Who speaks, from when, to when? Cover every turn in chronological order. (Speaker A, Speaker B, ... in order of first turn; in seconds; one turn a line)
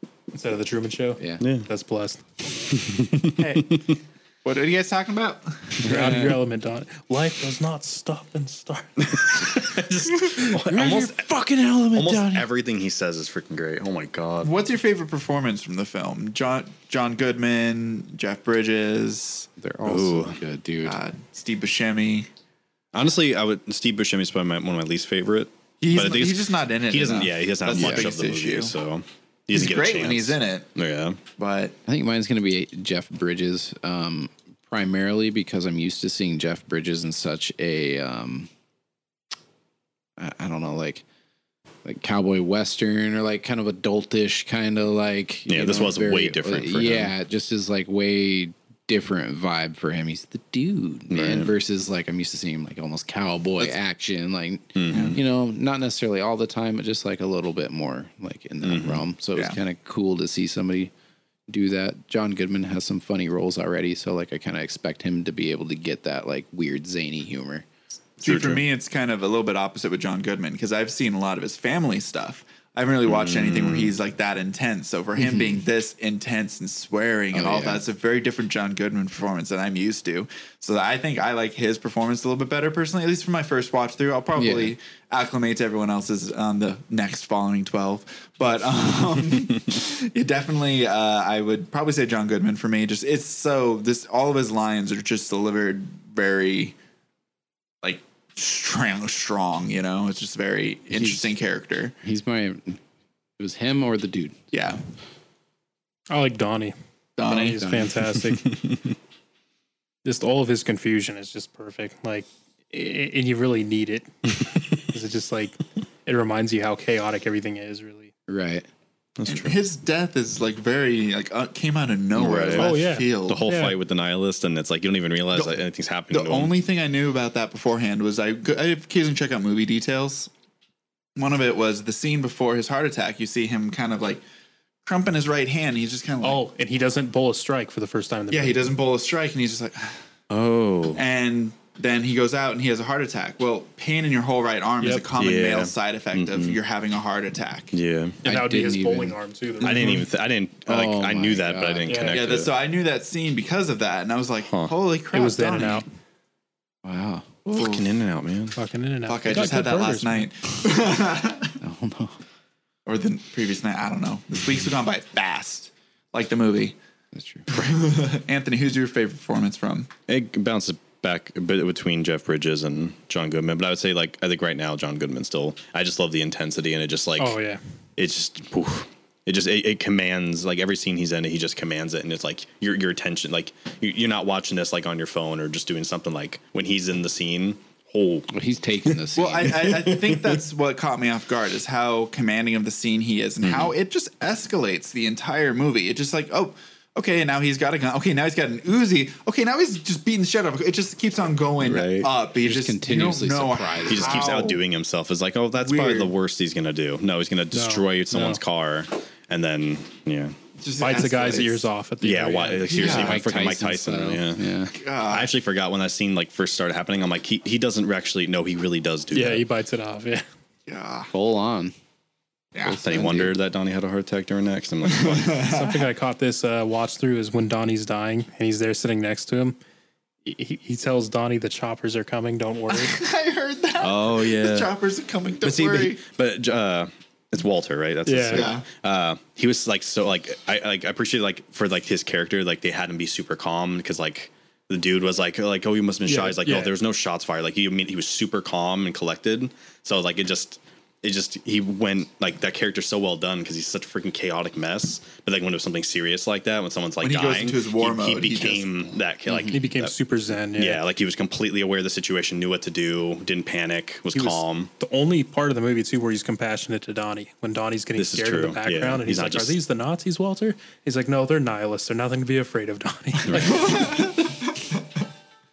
Speaker A: 0.3-2.2
Speaker B: 1.2-1.4
Speaker C: 1.4-1.7
Speaker C: 2.7-4.0
Speaker D: 4.4-5.9
Speaker A: 5.8-9.7
Speaker B: 5.8-6.4
Speaker C: 9.0-11.2
Speaker B: 10.5-12.5
Speaker C: 11.9-14.5
Speaker D: 14.4-19.5
Speaker B: 19.6-21.0
Speaker C: 19.9-20.4
Speaker D: 20.8-22.3
Speaker C: 22.9-31.2
Speaker D: 25.8-28.7
Speaker B: 27.7-28.1
Speaker D: 29.5-30.6
Speaker D: 31.4-31.8
Speaker B: 31.9-38.5
Speaker B: 40.2-41.0
Speaker B: 41.8-60.9
Speaker C: 45.5-47.1
Speaker C: 51.1-51.5
Speaker C: 54.7-55.2
Speaker D: 54.9-55.2
Speaker C: 58.6-59.0
Speaker B: 61.5-67.7
Speaker D: 68.2-96.7
Speaker C: 68.2-68.6
Speaker C: 73.0-73.9
Speaker B: 75.2-75.6
Speaker B: 77.3-77.8
Speaker B: 84.3-84.7
Speaker D: 97.8-101.9
Speaker B: 100.9-101.2
Speaker B: 102.0-102.8
Speaker B: 103.4-104.4
Speaker D: 104.5-104.8
Speaker A: 106.1-108.5
Speaker D: 107.2-107.6
Speaker B: 107.6-108.0
Speaker A: 110.0-114.1
Speaker A: 114.7-118.1
Speaker B: 118.3-118.7
Speaker C: 119.2-119.6
Speaker D: 119.2-123.5
Speaker C: 122.1-126.5
Speaker A: 122.5-123.8
Speaker D: 125.3-125.6
Speaker D: 126.1-130.3
Speaker D: 131.2-134.2
Speaker D: 134.8-136.4
Speaker A: 136.2-138.7
Speaker D: 138.3-139.9
Speaker C: 140.3-141.0
Speaker D: 140.9-147.7
Speaker C: 145.1-146.6
Speaker C: 147.7-148.2
Speaker A: 148.2-150.0
Speaker B: 148.2-149.2
Speaker C: 149.6-152.5
Speaker B: 150.7-152.1
Speaker A: 151.8-152.2
Speaker D: 152.1-155.8
Speaker C: 154.4-154.7
Speaker A: 155.1-155.8
Speaker B: 156.8-157.3
Speaker C: 157.4-158.6
Speaker D: 157.5-157.9
Speaker A: 158.6-160.3
Speaker D: 159.1-161.6
Speaker B: 161.6-162.2
Speaker D: 162.8-166.7
Speaker B: 167.1-167.5
Speaker D: 167.5-169.9
Speaker C: 170.1-177.3
Speaker A: 177.2-177.6
Speaker C: 178.0-188.3
Speaker B: 188.3-189.7
Speaker D: 189.1-204.6
Speaker C: 189.5-190.4
Speaker C: 193.4-193.7
Speaker C: 201.6-202.1
Speaker B: 202.3-204.5
Speaker C: 203.9-210.3
Speaker D: 205.5-206.1
Speaker A: 207.5-208.4
Speaker D: 210.6-211.6
Speaker A: 210.8-212.8
Speaker C: 212.0-214.4
Speaker D: 212.7-213.2
Speaker B: 212.8-214.7
Speaker D: 214.7-215.3
Speaker C: 215.0-219.4
Speaker A: 219.1-220.2
Speaker D: 220.7-221.1
Speaker B: 221.1-221.7
Speaker D: 222.5-222.8
Speaker B: 222.6-223.3
Speaker C: 222.8-225.4
Speaker D: 224.8-225.8
Speaker A: 225.4-229.6
Speaker A: 230.2-233.0
Speaker D: 232.7-236.0
Speaker C: 233.8-234.7
Speaker C: 235.4-259.9
Speaker A: 238.1-238.5
Speaker D: 238.3-238.6
Speaker A: 246.1-246.7
Speaker D: 257.0-258.9
Speaker A: 259.5-260.8
Speaker C: 260.5-264.7
Speaker A: 264.1-273.8
Speaker C: 267.9-269.6
Speaker C: 273.2-273.6
Speaker D: 273.4-274.8